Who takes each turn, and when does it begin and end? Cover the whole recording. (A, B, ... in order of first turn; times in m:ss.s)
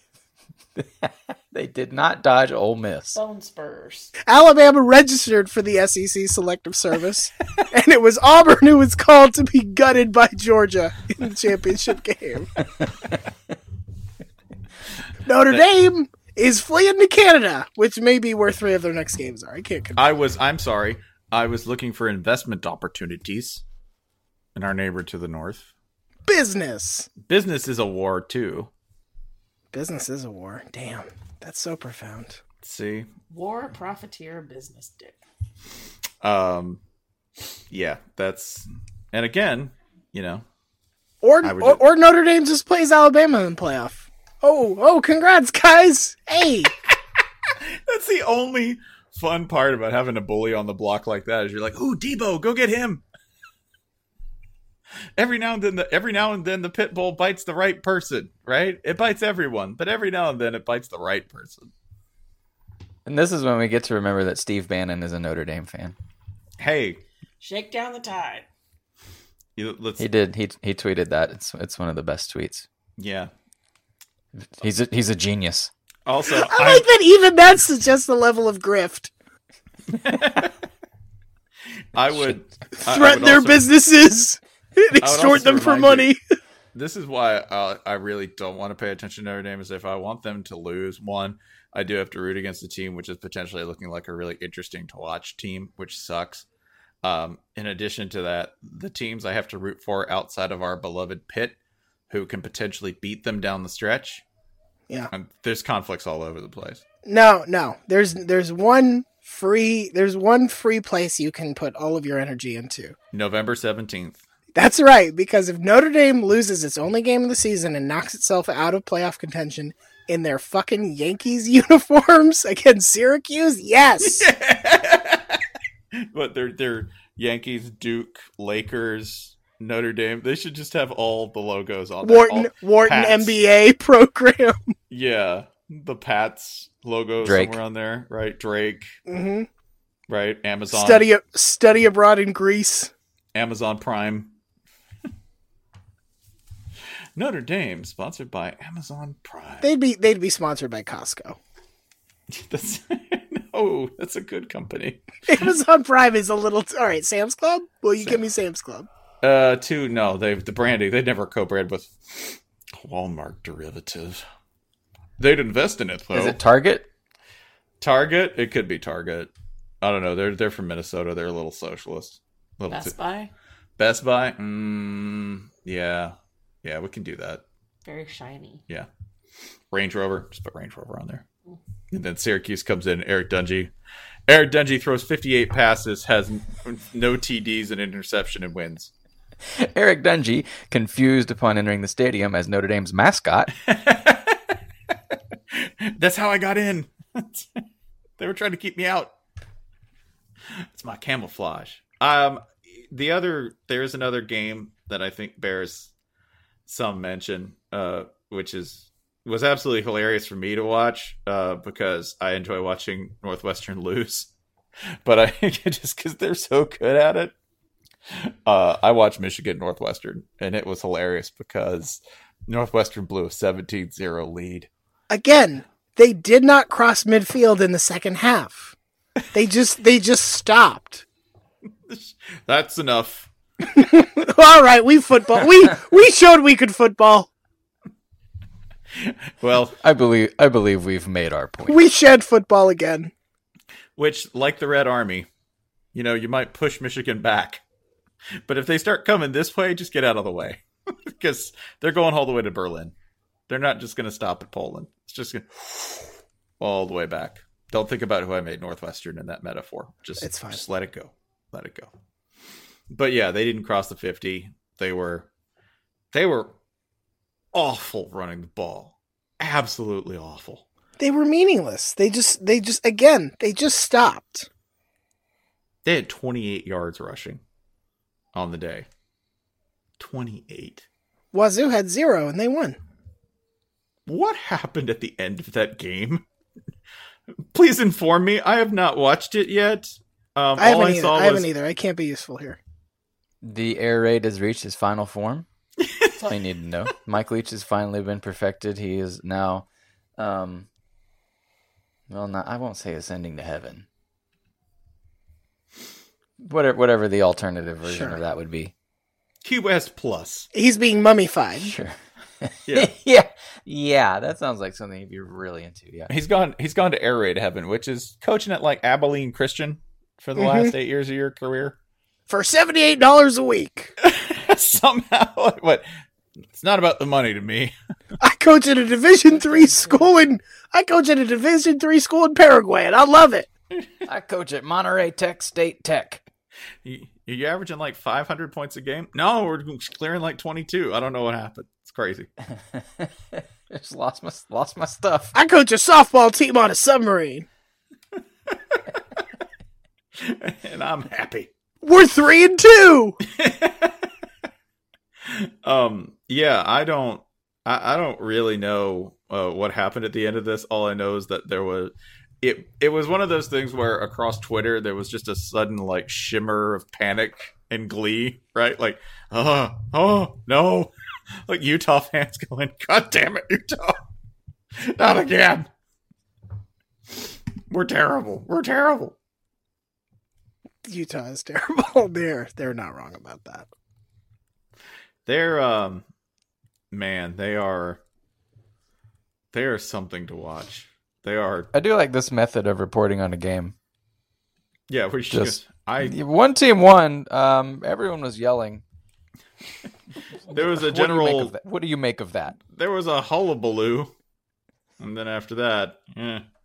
0:00.8-0:03.2 A
0:03.1-0:04.1 B
0:04.2-0:12.5 C
0:15.2-0:20.0 C
0:20.0-0:23.6 D
0:24.5-0:25.7 D
0:26.2-0:27.1 C
0:27.2-0:28.7 D
0:29.7-0:32.4 C
0:32.6-0:33.1 D
0:33.3-0:35.2 B
0:36.2-0:36.8 D
0:37.7-0:40.4 D
0:41.2-0:46.7 C
0:41.4-0:41.8 D
0:47.5-0:53.0 D
0:55.2-1:01.7 D
1:03.0-1:06.0 A
1:06.6-1:07.0 D
1:07.4-1:08.5 B
1:09.6-1:10.0 D
1:10.0-1:12.6 A
1:13.0-1:13.3 D
1:14.6-1:15.7 A
1:16.0-1:16.9 D
1:16.4-1:19.1 C
1:19.9-1:20.5 D
1:21.9-1:23.7 D
1:22.8-1:26.2 C
1:25.0-1:26.1 D
1:26.7-1:36.5 D
1:37.0-1:41.6 D
1:42.1-1:44.2 D
1:45.1-1:46.8 D
1:47.0-1:52.9 C
1:53.1-1:54.2 D
1:54.5-2:04.3 C
2:04.0-2:05.4 D
2:05.9-2:13.3 D
2:12.0-2:14.7 C
2:14.9-2:18.9 D
2:17.2-2:17.6 A
2:19.1-2:19.5 C
2:20.1-2:21.0 D
2:20.7-2:22.9 C
2:23.3-2:24.3 D
2:27.2-2:29.6 D
2:29.6-2:31.4 C
2:32.3-2:35.5 D
2:35.3-2:38.9 C
2:39.2-2:44.2 D
2:45.2-2:46.4 D
2:46.1-2:46.9 A
2:47.8-2:49.3 D
2:49.8-2:52.9 D
2:52.7-2:53.3 B
2:53.8-2:57.4 D
2:57.8-2:58.6 B
2:59.7-3:01.2 D
3:01.9-3:03.7 D
3:04.3-3:08.9 D
3:09.5-3:13.5 A
3:13.6-3:14.5 D
3:15.5-3:17.6 D
3:18.2-3:19.1 D
3:20.6-3:25.9 D
3:26.6-3:34.3 D
3:35.0-3:37.3 D
3:38.1-3:44.7 D
3:45.1-3:48.7 C
3:49.3-3:51.0 C
3:51.9-3:53.3 D
3:53.7-3:57.3 C
3:58.9-3:59.8 D
3:59.8-4:01.8 A
4:01.6-4:03.1 C
4:04.0-4:05.3 D
4:05.9-4:07.6 D
4:08.4-4:12.9 D
4:13.5-4:21.9 D
4:20.2-4:20.6 C
4:22.9-4:25.3 D
4:26.1-4:26.5 D
4:27.5-4:30.6 D
4:31.0-4:34.5 C
4:35.8-4:37.4 D
4:38.3-4:38.9 D
4:40.0-4:40.8 D
4:41.3-4:42.8 C
4:44.0-4:46.2 D
4:47.5-4:51.5 D
4:50.6-4:52.6 C
4:53.4-4:55.4 A
4:55.8-4:56.1 D
4:56.3-4:59.6 A
5:00.2-5:00.6 A
5:02.1-5:03.8 A
5:06.4-5:08.7 A
5:07.8-5:08.2 C
5:09.4-5:10.5 D
5:10.5-5:11.7 C
5:11.6-5:16.1 A
5:12.7-5:12.9 D
5:16.1-5:21.8 D
5:20.4-5:20.7 C
5:22.3-5:23.9 C
5:24.0-5:25.9 D
5:26.4-5:27.7 D
5:28.2-5:33.5 C
5:29.3-5:30.1 B
5:34.1-5:36.2 A
5:36.8-5:42.3 D
5:42.5-5:45.3 A
5:45.3-5:47.4 C
5:48.5-5:48.8 D
5:50.2-5:51.5 D
5:51.8-5:53.2 C
5:53.2-5:54.1 D
5:55.2-6:10.9 D
6:11.4-6:14.1 D
6:14.8-6:15.7 D
6:17.7-6:19.1 D
6:20.8-6:23.7 C
6:25.2-6:26.0 D
6:26.9-6:28.0 D
6:29.5-6:31.7 D
6:31.7-6:33.7 A
6:34.9-6:36.2 D
6:35.3-6:38.8 A
6:40.5-6:41.5 D
6:40.5-6:42.6 A
6:42.6-6:44.1 D
6:45.0-6:46.4 D